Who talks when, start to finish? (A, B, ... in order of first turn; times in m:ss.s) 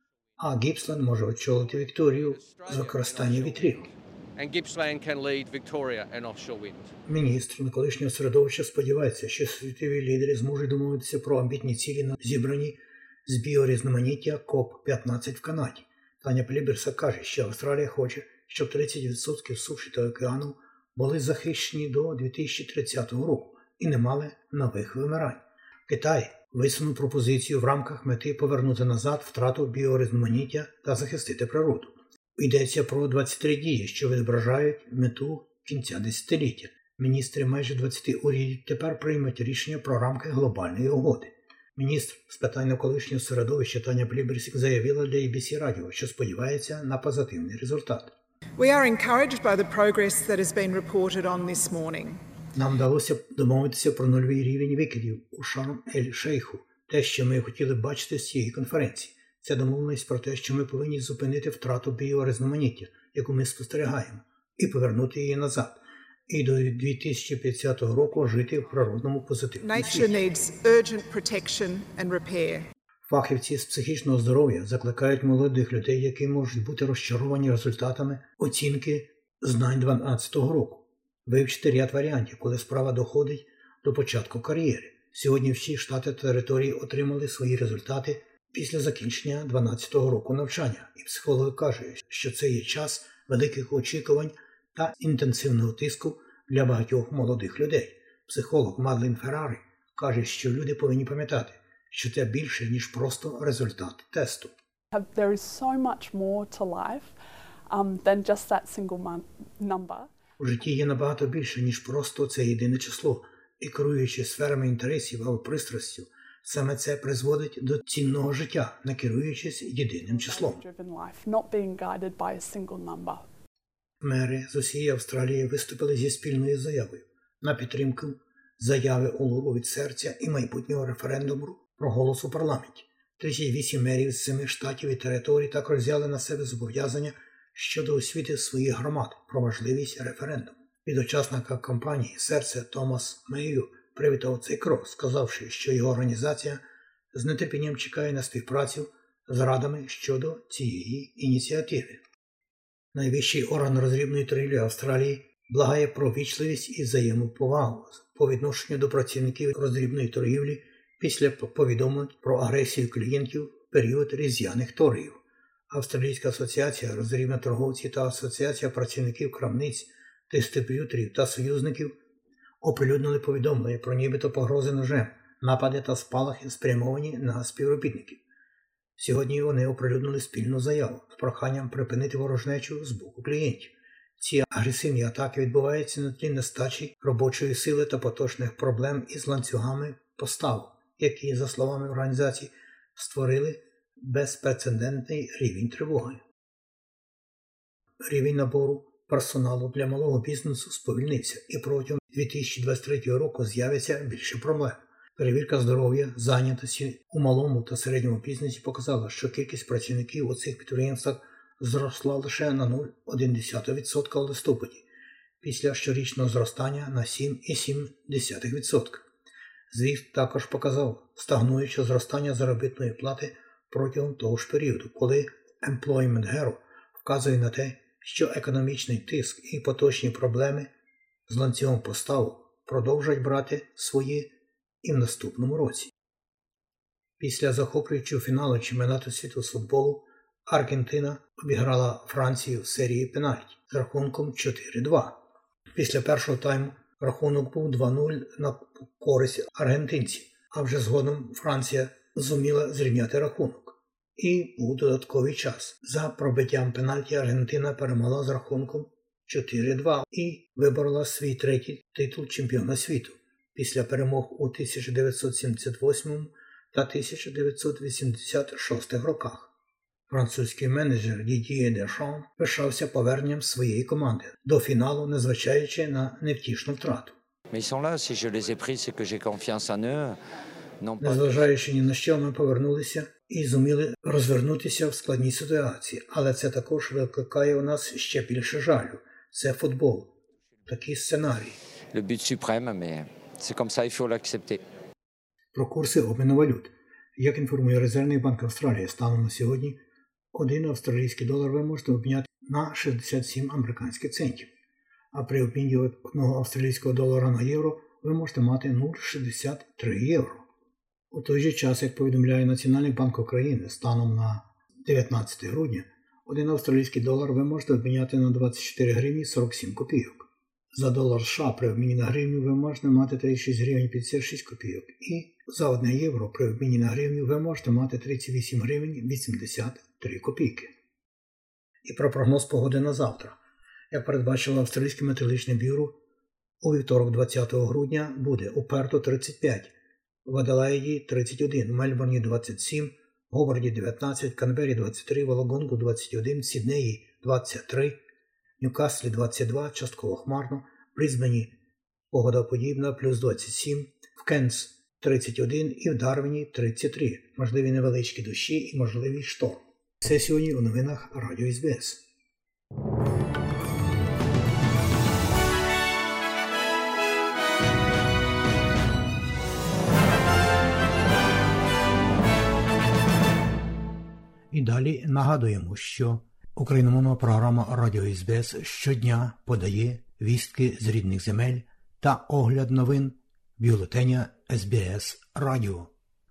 0:00.4-0:03.9 A
0:01.5-0:06.9 B
0:07.0-0:48.1 A
0:48.6-0:52.2 C
0:52.5-1:10.1 A
1:09.6-1:12.7 C
1:13.1-1:44.5 A
1:44.9-1:47.1 D
1:47.7-1:50.1 D
1:50.4-2:00.6 A
2:00.0-2:03.2 D
2:04.0-2:26.6 A
2:27.1-2:32.0 A
2:32.9-2:45.2 A
2:45.7-2:51.9 A
2:52.6-2:58.2 A
2:59.0-3:16.2 A
3:18.0-3:34.8 A
3:35.4-3:39.0 A
3:39.7-3:50.7 A
3:51.3-3:55.9 A
3:57.2-4:05.2 A
4:05.8-4:29.5 A
4:30.1-4:37.1 A
4:37.5-4:40.2 E
4:40.8-4:41.5 E
4:41.0-4:50.2 A
4:50.7-4:51.6 A
4:51.9-4:54.6 E
4:55.5-4:59.8 A
5:00.3-5:04.5 A
5:05.1-5:10.4 A
5:11.1-5:30.7 A
5:31.8-5:33.4 A
5:33.9-5:35.9 A
5:36.6-5:39.7 A
5:40.2-5:48.0 A
5:48.6-5:51.5 A
5:52.1-6:02.0 A
6:14.5-6:25.9 A